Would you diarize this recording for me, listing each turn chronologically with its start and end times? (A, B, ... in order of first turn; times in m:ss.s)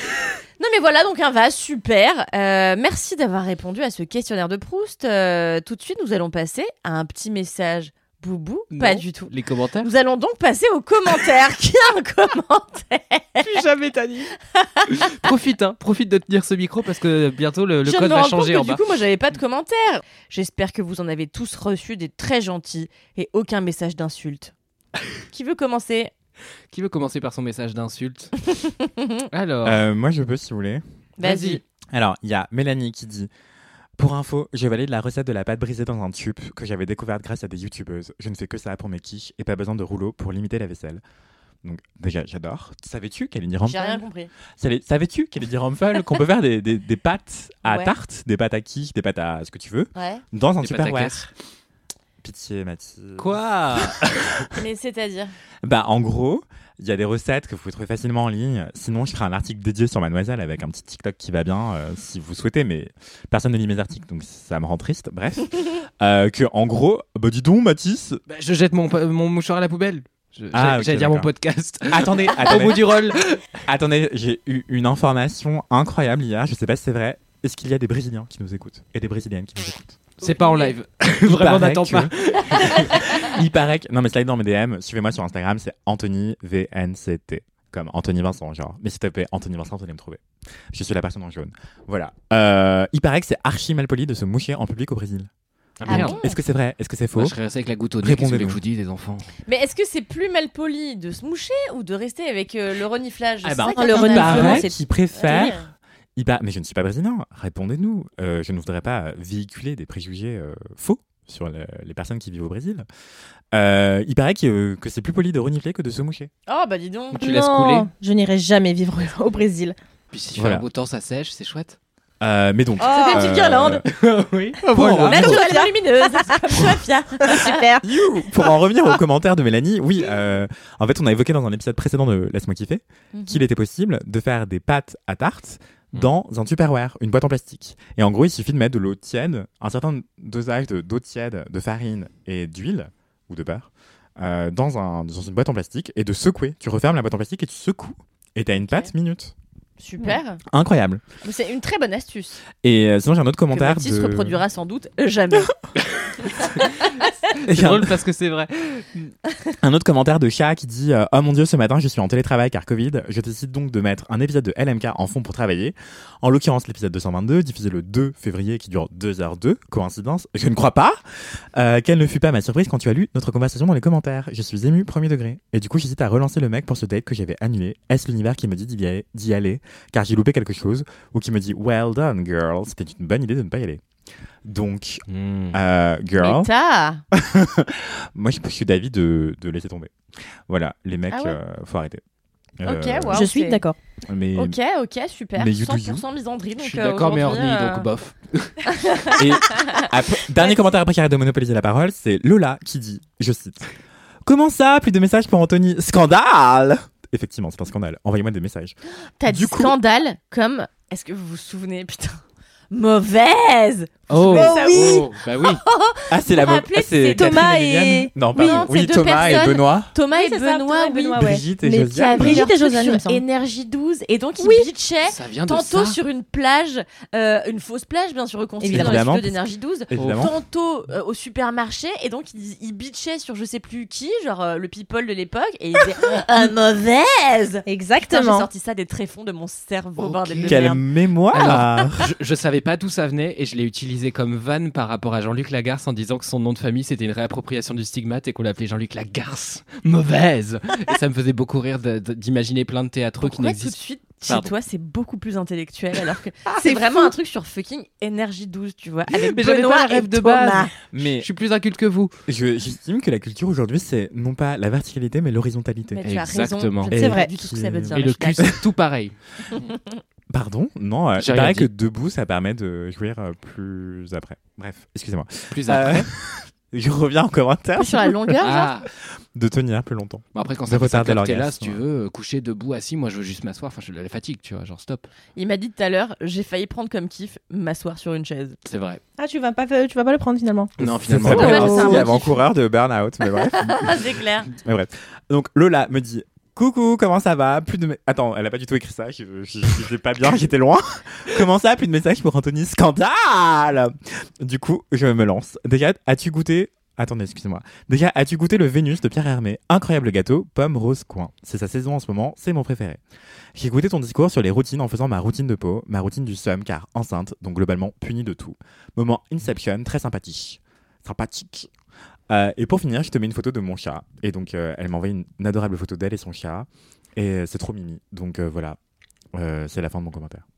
0:00.6-0:13.6 A
0:08.7-0:09.9 B
0:13.4-0:14.3 B
0:14.5-0:15.2 A
0:14.9-0:18.8 B
0:17.8-0:24.5 A
0:25.3-0:26.1 A
0:26.7-0:28.3 B
0:28.6-0:29.0 A
0:29.3-0:29.8 B
0:29.6-0:30.8 C
0:31.2-0:31.6 A
0:31.2-0:31.6 B
0:31.9-0:33.3 C
0:34.0-0:41.0 C
0:41.6-0:44.0 C
0:43.6-0:44.3 A
0:44.6-0:51.3 C
0:47.6-0:47.9 A
0:50.0-0:50.2 A
0:50.6-0:51.3 B
0:52.2-0:54.5 C
0:53.2-0:54.4 B
0:54.5-0:55.3 A
0:55.6-1:08.2 C
1:08.3-1:13.6 B
1:10.5-1:11.3 C
1:11.9-1:12.9 C
1:13.6-1:20.0 C
1:20.2-1:20.7 A
1:20.2-1:23.2 B
1:21.2-1:35.3 C
1:35.8-1:36.2 B
1:35.9-1:37.4 C
1:35.9-1:36.4 A
1:37.2-1:39.3 B
1:38.0-1:38.6 C
1:39.5-1:45.7 A
1:43.4-1:44.6 B
1:43.7-1:44.8 D
1:43.9-1:52.9 C
1:53.5-1:56.3 C
1:56.5-1:57.2 A
1:57.1-1:57.9 B
1:57.2-1:59.8 D
2:00.1-2:01.8 B
2:00.4-2:00.6 C
2:02.2-2:03.9 C
2:02.8-2:03.8 A
2:03.0-2:03.3 D
2:03.9-2:05.4 B
2:04.7-2:06.6 D
2:04.8-2:05.4 C
2:05.1-2:07.6 A
2:07.3-2:07.9 D
2:07.8-2:29.4 C
2:13.1-2:13.4 A
2:28.6-2:28.9 A
2:29.8-2:30.4 A
2:30.5-2:31.0 C
2:31.2-2:32.4 A
2:32.6-2:34.4 C
2:33.5-2:35.5 A
2:36.4-2:36.8 A
2:37.4-2:39.1 B
2:37.5-2:38.0 C
2:39.6-2:51.0 C
2:51.5-3:03.8 C
3:04.4-3:06.5 C
3:05.1-3:05.6 B
3:06.2-3:07.0 A
3:07.1-3:12.0 C
3:11.1-3:11.4 A
3:12.6-3:13.2 C
3:12.6-3:13.6 A
3:13.1-3:13.8 D
3:14.1-3:14.6 C
3:14.4-3:17.9 A
3:15.4-3:16.0 C
3:16.6-3:18.6 B
3:18.8-3:19.2 A
3:19.2-3:23.7 C
3:24.2-3:29.8 C
3:29.2-3:37.5 A
3:34.1-3:35.6 B
3:34.3-3:35.1 D
3:36.1-3:39.9 C
3:37.1-3:38.6 D
3:38.4-3:41.2 A
3:40.1-3:43.2 D
3:41.2-3:42.4 C
3:42.0-4:00.8 A
3:44.4-3:44.7 D
3:45.0-3:46.0 B
3:48.6-3:49.0 D
3:48.7-3:50.3 C
3:50.0-3:50.3 B
3:57.6-3:58.5 D
4:00.0-4:00.6 B
4:00.5-4:02.1 C
4:01.3-4:14.5 B
4:13.2-4:20.7 A
4:16.5-4:17.1 D
4:19.1-4:22.1 B
4:20.9-4:21.3 C
4:22.3-4:26.0 C
4:25.9-4:28.4 A
4:26.0-4:27.0 B
4:26.9-4:28.6 C
4:26.9-4:27.3 D
4:27.9-4:29.7 B
4:30.3-4:41.8 C
4:31.2-4:31.7 B
4:35.5-4:36.1 B
4:37.8-4:38.7 A
4:38.4-4:38.9 B
4:40.4-4:45.1 B
4:45.4-4:48.6 A
4:48.7-4:49.0 B
4:49.2-4:52.1 D
4:50.8-4:51.6 B
4:51.0-5:13.0 C
4:51.3-4:52.4 A
4:53.6-4:54.5 A
5:13.5-5:21.7 C
5:22.3-5:28.8 C
5:29.3-5:30.4 C